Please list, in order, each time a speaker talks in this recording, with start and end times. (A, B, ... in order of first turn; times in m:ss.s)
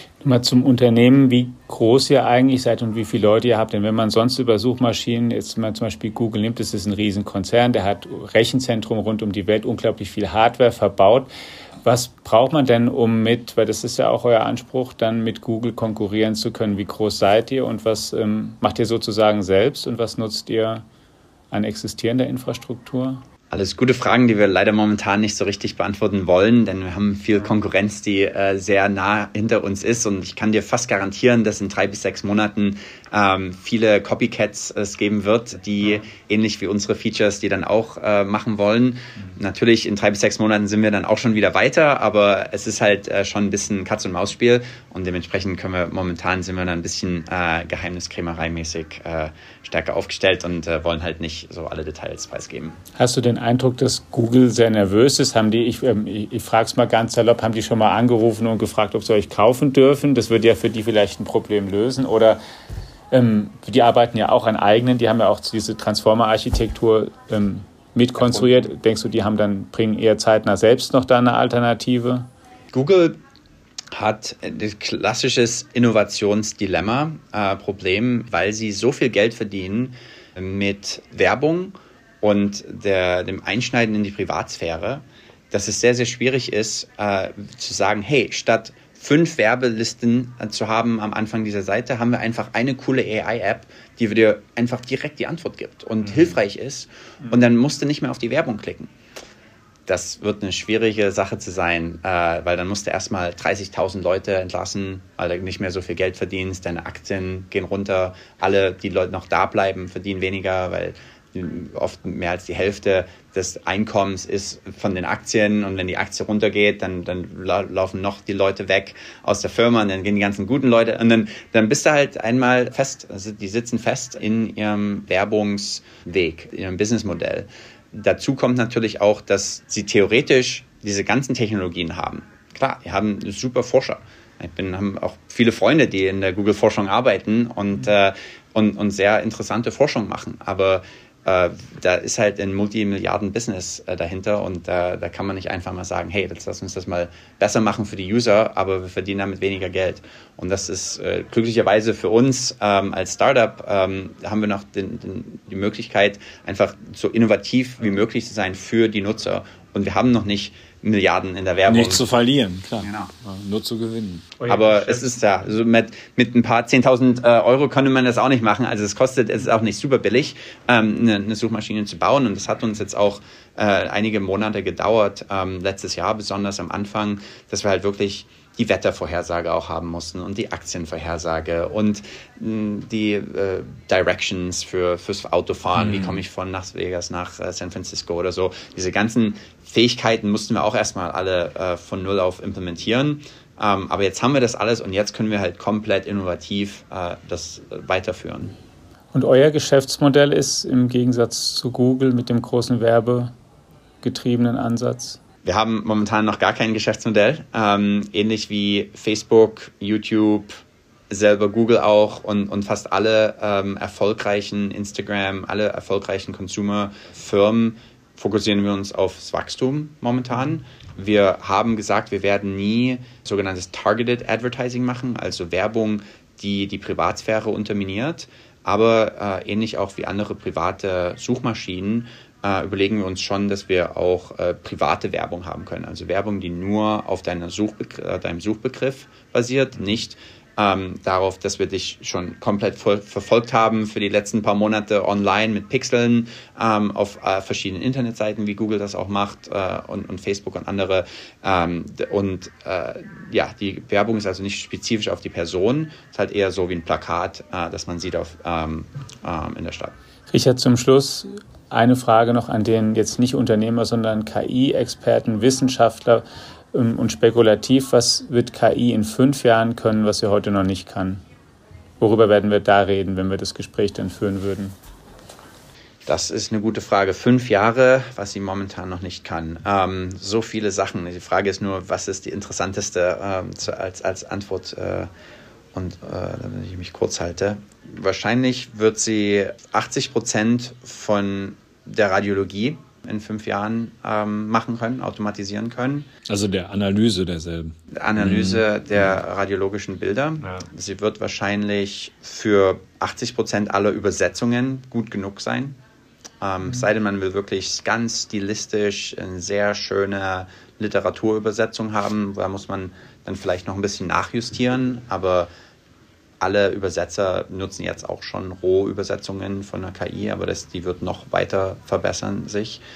0:00.2-0:11.3 A
0:11.8-0:20.8 A
0:21.5-0:23.2 A
0:23.5-0:52.8 B
0:53.0-1:02.4 A
1:03.1-1:12.3 A
1:08.2-1:08.6 B
1:12.7-1:13.2 B
1:13.9-1:38.9 B
1:39.9-2:42.1 B
2:41.7-2:44.4 C
2:42.8-2:43.1 B
2:44.4-2:45.0 A
2:44.4-3:18.6 B
3:05.8-3:06.2 C
3:19.1-3:23.3 A
3:24.0-3:25.2 A
3:25.4-4:20.0 B
4:20.3-4:31.2 A
4:32.0-4:34.8 A
4:36.1-4:45.1 B
4:45.7-4:56.1 B
4:56.3-4:58.6 C
4:57.9-5:05.8 B
5:06.4-5:15.5 B
5:16.4-5:22.8 B